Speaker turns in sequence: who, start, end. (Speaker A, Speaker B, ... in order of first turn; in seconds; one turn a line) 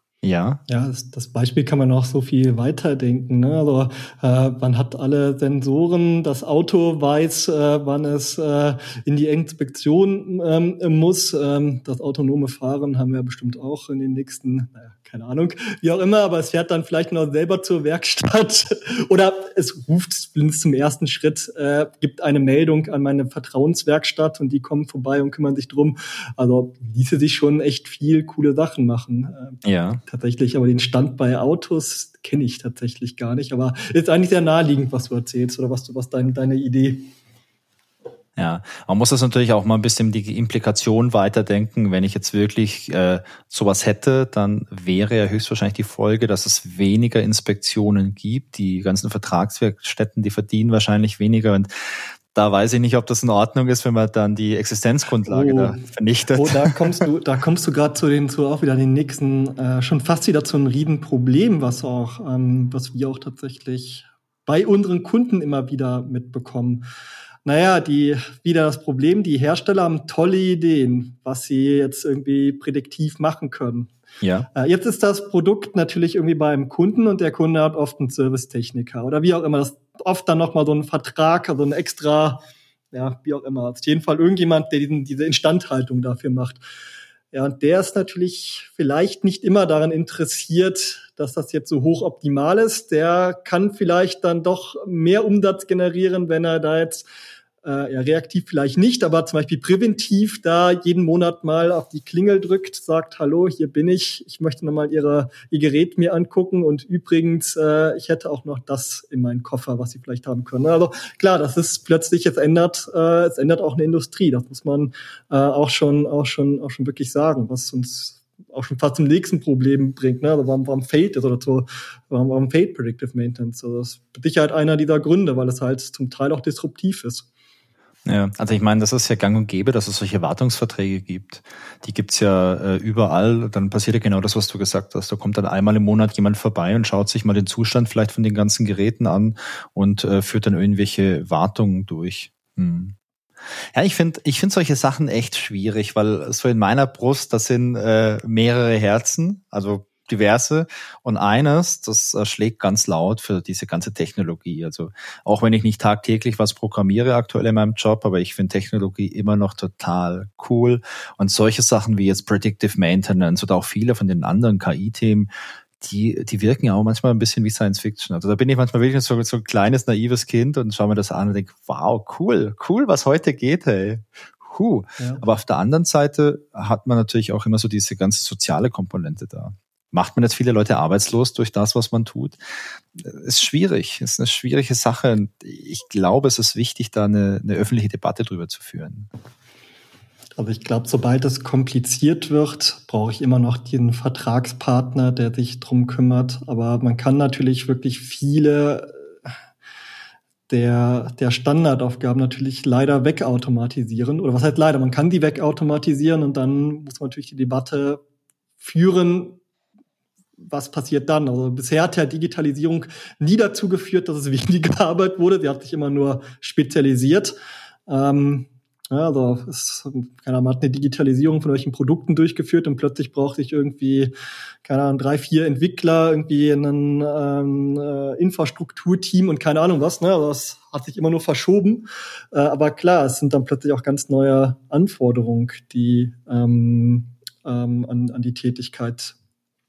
Speaker A: 0.2-0.6
Speaker B: 0.7-37.1
Speaker A: 29.6-30.0
Speaker A: 38.4-57.0
Speaker B: 55.3-66.8
Speaker B: 67.4-73.9
Speaker A: 74.2-74.5
Speaker B: 74.5-86.6
Speaker B: 87.3-97.0
Speaker B: 97.6-127.3
Speaker A: 128.1-142.9
Speaker A: 143.7-165.3
Speaker A: 165.8-182.4
Speaker B: 175.0-175.2
Speaker A: 182.9-189.1
Speaker B: 190.3-198.9
Speaker B: 200.5-208.0
Speaker B: 208.6-209.4
Speaker B: 210.4-217.3
Speaker B: 217.9-224.1
Speaker B: 224.6-239.1